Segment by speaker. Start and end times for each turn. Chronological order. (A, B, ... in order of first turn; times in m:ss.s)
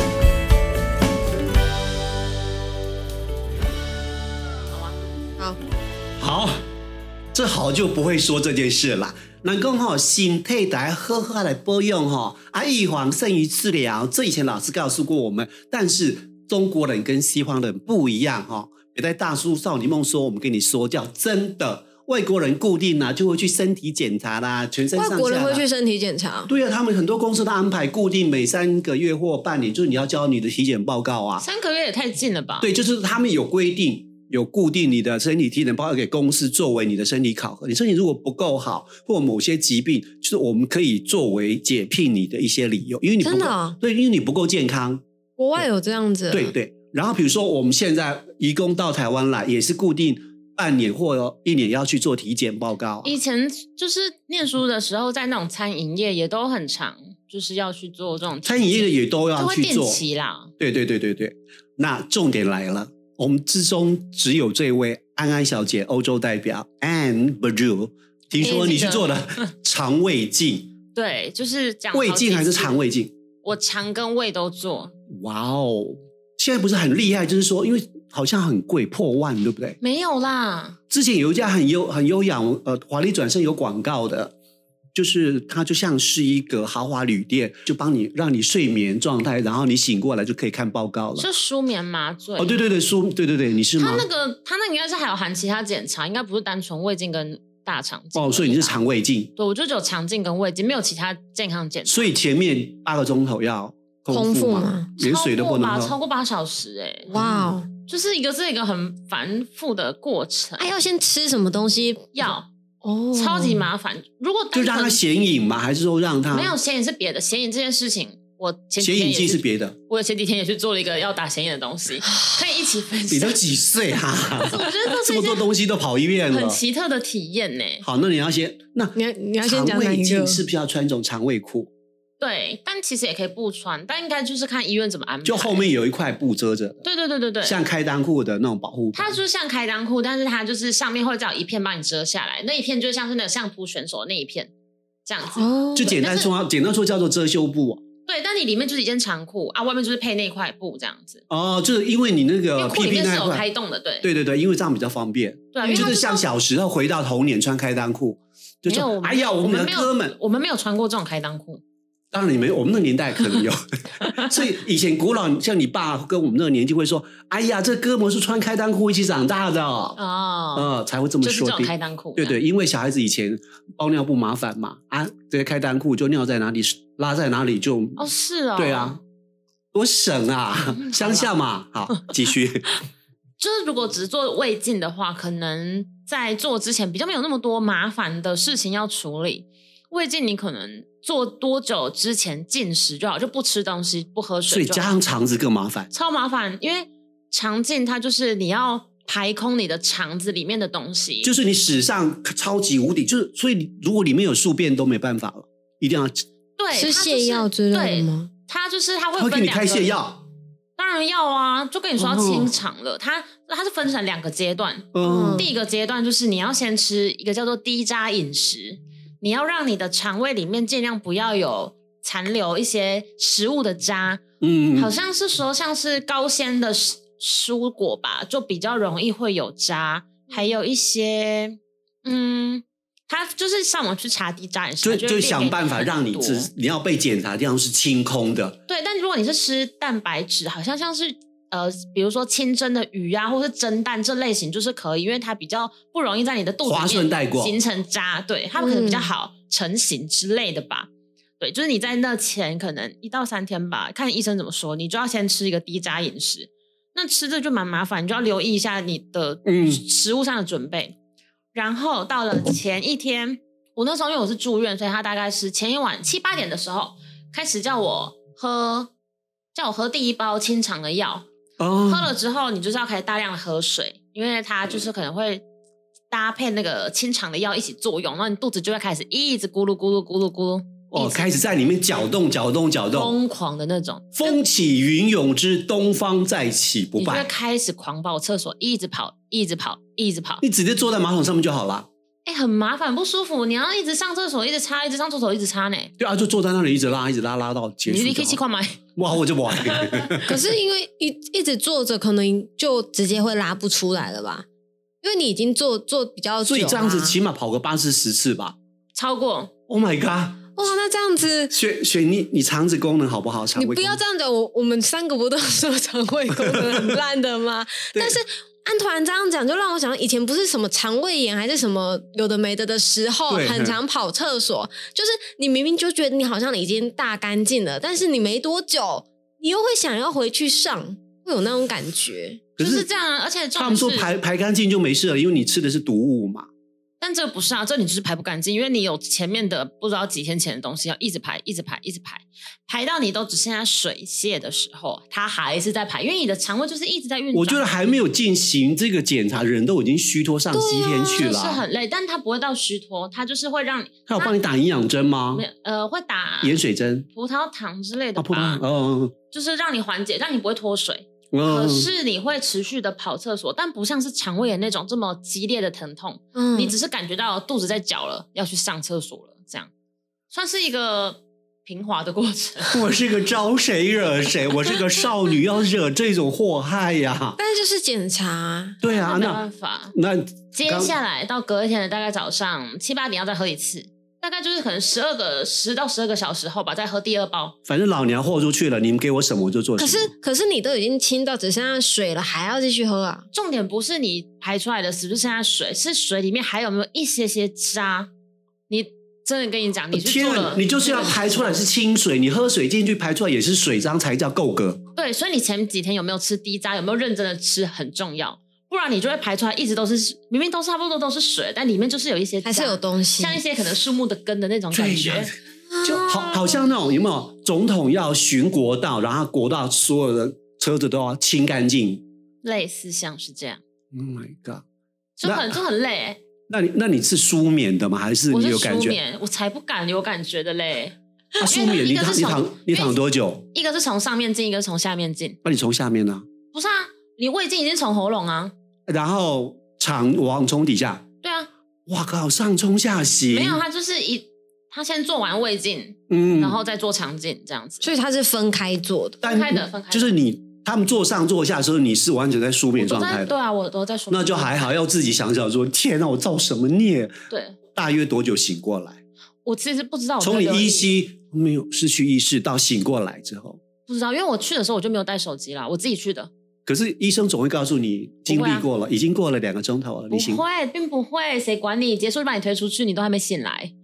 0:04.7-0:05.0 A
0:06.2-0:06.6 B
0:07.3-0:25.6 B
0:24.9-0:26.5 C
0:26.5-0:31.4 B
0:31.4-0:32.7 A
0:32.6-0:45.0 B
0:43.2-0:43.8 C
0:45.4-0:46.5 C
0:46.3-0:53.2 B
0:53.0-1:00.5 A
0:58.4-1:00.0 B
1:00.6-1:10.7 B
1:08.4-1:09.4 A
1:10.9-1:12.8 A
1:11.9-1:13.1 B
1:13.4-1:14.9 A
1:15.1-1:19.8 B
1:19.8-1:20.8 A
1:20.9-1:24.3 B
1:24.9-1:31.2 B
1:31.2-1:32.6 A
1:32.4-1:34.0 B
1:33.8-1:42.1 A
1:38.1-1:39.3 B
1:41.8-1:46.0 B
1:44.1-1:44.9 C
1:45.0-1:47.1 A
1:47.1-1:47.7 C
1:47.1-1:47.5 B
1:47.8-1:50.7 A
1:50.6-1:53.7 C
1:52.2-1:52.5 A
1:53.1-1:55.0 A
1:54.5-1:56.5 B
1:56.3-2:03.4 A
1:58.8-1:59.8 B
2:03.1-2:06.6 B
2:04.4-2:05.5 A
2:06.3-2:07.8 A
2:07.8-2:11.7 B
2:08.9-2:10.4 C
2:12.2-2:15.7 A
2:15.2-2:16.8 B
2:16.8-2:17.6 A
2:17.4-2:19.2 B
2:18.9-2:24.5 A
2:25.0-2:26.3 A
2:25.4-2:26.0 C
2:25.7-2:27.8 B
2:28.0-2:31.2 A
2:31.3-2:33.4 B
2:32.6-2:34.1 A
2:34.0-2:40.2 B
2:35.5-2:36.2 A
2:35.6-2:36.0 C
2:38.7-2:41.6 A
2:42.1-2:50.0 B
2:44.0-2:44.4 A
2:50.0-2:50.7 A
2:50.5-2:58.0 B
2:51.2-2:52.4 A
2:58.0-2:59.0 A
2:58.6-2:59.0 B
2:59.7-3:02.7 B
3:00.7-3:01.3 A
3:03.4-3:15.0 A
3:14.5-3:15.9 B
3:15.9-3:21.3 A
3:21.2-3:26.2 B
3:26.6-3:30.0 A
3:26.7-3:28.3 C
3:29.2-3:30.2 B
3:30.8-3:44.2 A
3:32.0-3:32.5 B
3:34.9-3:35.4 B
3:35.0-3:35.5 C
3:44.4-3:44.9 B
3:44.7-3:56.5 A
3:54.8-3:58.6 B
3:58.7-4:20.9 A
4:06.6-4:07.6 B
4:08.6-4:09.1 C
4:19.4-4:19.8 B
4:21.5-4:28.9 A
4:29.5-4:31.2 A
4:31.6-4:32.1 B
4:31.8-4:35.4 A
4:36.1-4:41.3 A
4:40.9-4:43.2 B
4:42.9-4:44.4 A
4:44.2-4:47.3 B
4:47.0-4:50.4 A
4:50.4-4:51.9 B
4:52.2-4:55.9 A
4:56.0-4:58.4 B
4:57.8-4:58.8 A
4:59.0-5:00.4 B
4:59.6-5:00.2 A
5:00.2-5:04.4 C
5:05.0-5:07.2 C
5:06.4-5:08.5 B
5:08.9-5:09.5 A
5:09.7-5:10.6 B
5:10.6-5:11.5 C
5:11.5-5:14.0 B
5:13.5-5:32.4 C
5:16.4-5:17.0 B
5:17.9-5:18.2 B
5:23.3-5:23.8 B
5:32.6-5:32.8 B
5:32.6-5:34.1 A
5:33.6-5:36.5 B
5:37.0-5:47.6 A
5:47.3-5:51.6 B
5:50.5-5:51.3 C
5:51.1-5:54.4 A
5:54.1-5:55.4 B
5:55.3-5:56.6 A
5:56.4-5:57.1 B
5:57.1-5:58.6 A
5:58.2-5:59.1 B
5:59.3-6:09.7 A
6:01.3-6:01.9 B
6:06.3-6:06.7 C
6:10.3-6:12.9 A
6:12.7-6:17.4 B
6:17.4-6:18.8 C
6:18.8-6:19.4 B
6:18.8-6:19.9 A
6:19.9-6:20.9 B
6:20.5-6:27.6 A
6:27.7-6:30.1 B
6:29.8-6:33.3 C
6:33.3-6:38.1 A
6:38.7-6:41.6 A
6:39.9-6:44.8 B
6:45.0-6:55.3 A
6:52.4-6:53.4 C
6:54.7-7:02.0 B
6:55.7-6:56.6 C
7:02.4-7:03.6 A
7:03.9-7:04.6 B
7:05.2-7:06.2 A
7:05.2-7:05.5 B
7:06.5-7:09.0 B
7:08.3-7:13.0 A
7:11.4-7:13.4 B
7:13.5-7:15.4 A
7:15.4-7:16.2 B
7:16.5-7:18.5 A
7:18.9-7:21.0 B
7:21.2-7:21.5 A
7:21.9-7:23.6 B
7:23.3-7:27.8 A
7:26.1-7:26.6 B
7:27.8-7:29.2 C
7:29.2-7:30.2 A
7:29.2-7:33.3 B
7:32.8-7:34.7 A
7:34.1-7:37.1 B
7:37.3-7:37.6 A
7:37.7-7:39.0 B
7:39.4-7:40.9 A
7:40.2-7:43.6 B
7:43.8-7:46.3 A
7:46.6-7:50.4 B
7:48.3-7:48.7 A
7:50.1-7:53.7 A